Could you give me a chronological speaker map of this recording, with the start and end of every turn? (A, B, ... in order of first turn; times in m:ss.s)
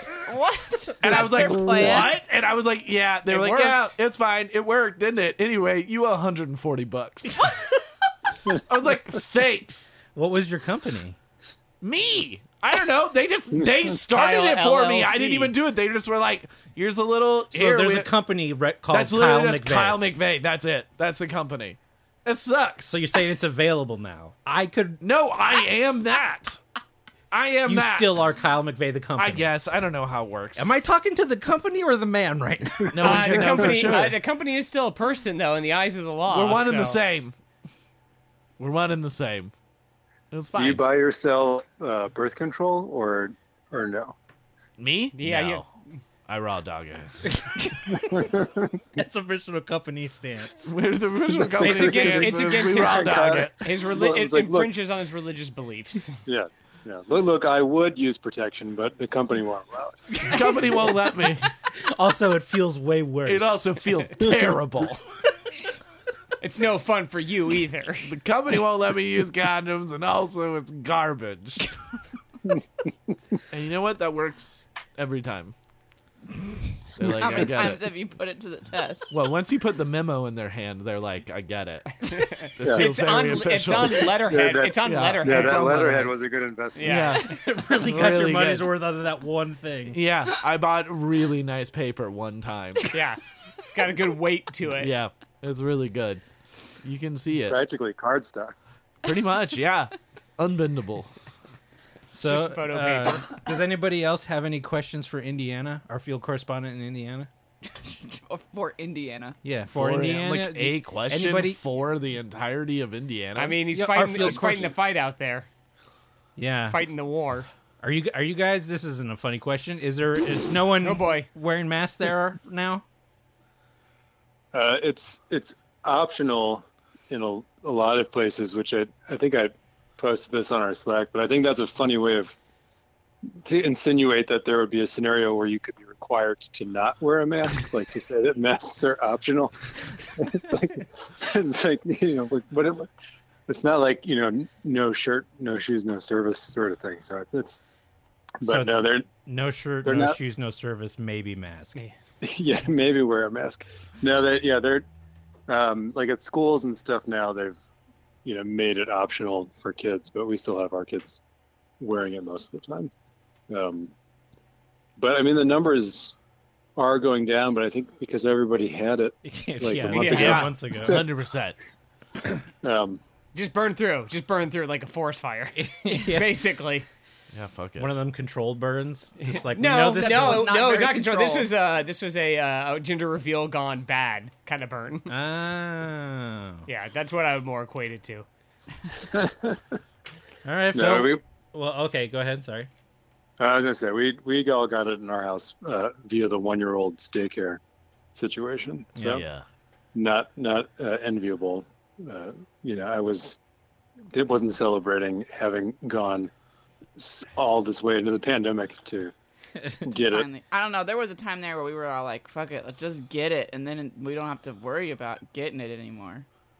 0:00.2-0:02.2 A
0:01.0-0:07.8 B
0:03.2-0:03.9 C
0:08.5-0:09.9 B
0:10.0-0:11.2 D
0:11.8-0:18.1 B
0:14.1-0:15.5 C
0:17.5-0:20.0 D
0:18.9-0:23.0 B
0:22.8-0:25.0 D
0:25.0-0:26.6 B
0:27.3-0:28.2 B
0:27.6-0:29.5 D
0:29.2-0:30.7 B
0:30.6-0:33.3 D
0:32.9-0:34.2 B
0:33.0-0:33.6 E
0:33.0-0:37.0 C
0:36.3-0:37.3 B
0:38.6-0:39.5 B
0:40.3-0:40.9 B
0:40.5-0:44.1 E
0:44.8-0:45.6 B
0:45.1-0:45.7 C
0:46.3-0:47.3 B
0:47.3-0:47.8 D
0:47.9-0:48.8 E
0:49.0-0:50.7 D
0:50.6-0:53.6 B
0:51.4-0:54.7 E
0:51.6-0:56.2 C
0:56.2-1:00.2 E
1:00.2-1:01.5 B
1:01.8-1:03.8 D
1:03.2-1:05.0 B
1:06.4-1:08.1 C
1:08.0-1:11.7 B
1:13.5-1:15.5 B
1:17.0-1:17.9 B
1:17.0-1:19.2 A
1:19.1-1:24.2 B
1:22.1-1:25.7 C
1:22.6-1:22.9 E
1:24.3-1:27.2 E
1:24.8-1:26.1 B
1:26.7-1:27.2 C
1:26.8-1:28.7 B
1:27.2-1:30.0 D
1:29.9-1:33.0 B
1:32.9-1:34.9 C
1:34.7-1:36.2 B
1:36.8-1:37.6 B
1:37.5-1:38.5 E
1:39.0-1:41.1 B
1:42.1-1:47.3 D
1:42.2-1:43.4 C
1:47.8-1:49.4 A
1:49.4-1:51.6 D
1:49.7-1:53.6 B
1:53.4-1:55.5 C
1:53.7-1:54.7 D
1:54.2-1:54.6 B
1:56.4-1:56.8 D
1:56.7-1:57.5 C
1:57.8-2:02.8 D
2:00.8-2:01.3 C
2:04.5-2:12.4 E
2:13.4-2:22.9 E
2:23.5-2:27.6 E
2:28.4-2:29.1 E
2:28.5-2:31.8 D
2:29.8-2:30.2 E
2:32.2-2:34.8 E
2:35.5-2:37.6 E
2:38.2-2:41.2 E
2:41.8-2:42.9 E
2:43.5-2:43.9 E
2:45.0-2:46.2 E
2:46.8-2:51.1 E
2:49.2-2:51.0 D
2:49.9-2:50.4 C
2:50.0-2:51.6 B
2:52.6-2:53.0 E
2:53.3-2:56.9 C
2:55.6-2:56.4 D
2:57.3-2:57.9 B
2:57.8-3:00.5 D
2:59.2-3:05.1 C
2:59.9-3:01.5 A
3:05.1-3:06.6 D
3:06.6-3:08.2 C
3:09.1-3:09.6 E
3:10.4-3:12.7 D
3:10.7-3:11.2 E
3:13.4-3:17.6 E
3:18.1-3:19.2 E
3:19.0-3:19.4 B
3:19.9-3:23.4 E
3:24.1-3:26.3 E
3:27.0-3:29.1 E
3:29.6-3:29.8 D
3:29.8-3:30.3 E
3:30.0-3:36.2 A